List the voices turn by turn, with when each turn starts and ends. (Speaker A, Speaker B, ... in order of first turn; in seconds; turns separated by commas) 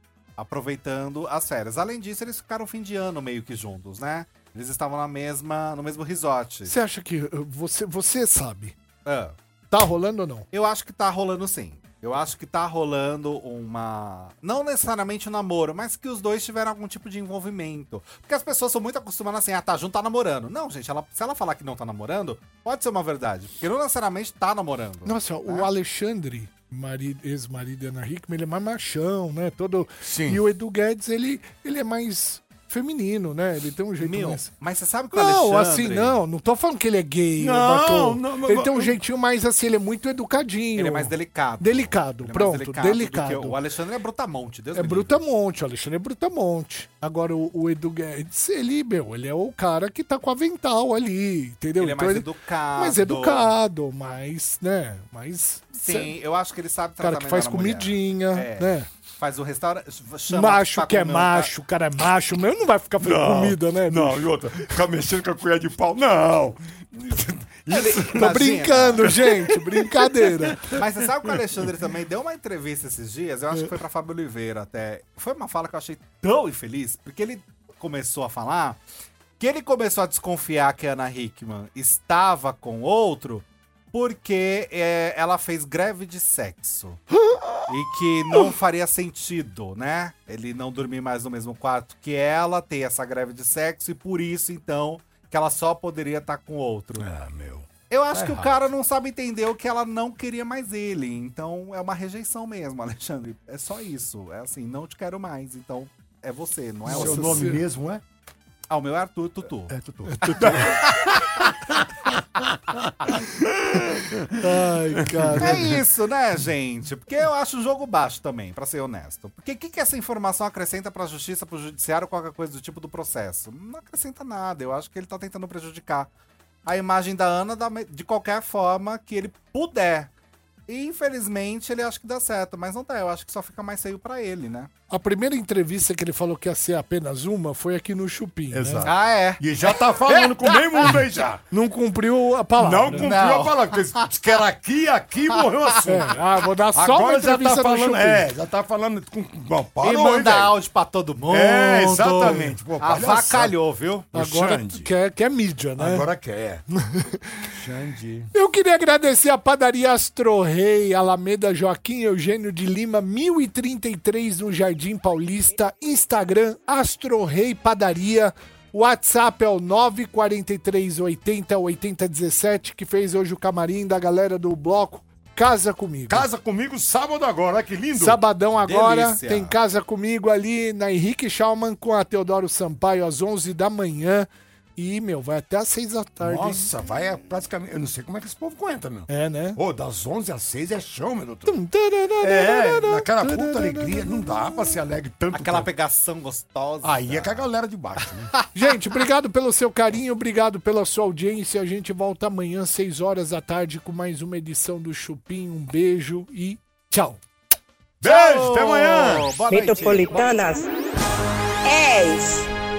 Speaker A: 0.4-6.7, Speaker B: 6.7-8.7, Speaker A: 9.0-9.3, Speaker B: 9.7-10.5, Speaker A: 10.5-25.7, Speaker B: 25.0-34.5, Speaker C: 30.0-30.4, Speaker A: 34.0-36.2, Speaker B: 35.1-43.6, Speaker C: 37.4-39.0, Speaker A: 40.8-45.2, Speaker B: 44.7-56.1, Speaker A: 51.8-53.5, Speaker A: 55.8-61.5, Speaker B: 57.0-58.9, Speaker B: 60.3-64.3, Speaker C: 63.0-71.4, Speaker A: 67.7-69.1, Speaker B: 68.2-70.7, Speaker A: 70.7-78.8, Speaker A: 79.4-87.0, Speaker B: 87.3-87.6, Speaker A: 87.7-97.1, Speaker C: 97.0-98.6, Speaker A: 97.9-107.5, Speaker C: 106.8-108.0, Speaker B: 106.9-107.6, Speaker A: 108.7-109.7, Speaker C: 109.7-111.5, Speaker B: 110.0-110.8, Speaker A: 110.5-110.8, Speaker C: 112.0-115.7, Speaker B: 114.3-115.7, Speaker A: 115.4-126.1, Speaker A: 126.6-130.1, Speaker A: 130.7-134.7, Speaker B: 134.9-138.9, Speaker C: 138.5-141.4, Speaker A: 138.8-139.5, Speaker A: 140.1-141.0, Speaker B: 141.5-143.1, Speaker C: 142.6-146.2, Speaker A: 142.9-144.1, Speaker A: 145.4-145.8, Speaker B: 145.8-148.2, Speaker C: 146.7-150.6, Speaker A: 149.8-154.1, Speaker C: 151.3-153.6, Speaker C: 154.1-154.9, Speaker B: 154.1-156.1, Speaker C: 155.8-156.6, Speaker B: 156.9-157.4, Speaker C: 157.5-158.3, Speaker B: 158.3-176.3, Speaker C: 176.1-178.2, Speaker B: 177.9-186.7, Speaker A: 178.6-179.6, Speaker C: 186.2-191.6, Speaker B: 189.1-189.6, Speaker B: 191.4-194.3, Speaker C: 192.2-195.7, Speaker A: 195.3-197.5, Speaker C: 196.8-198.3, Speaker B: 198.5-207.2, Speaker C: 208.0-209.3, Speaker A: 208.0-210.3, Speaker D: 209.5-210.7, Speaker D: 211.6-212.5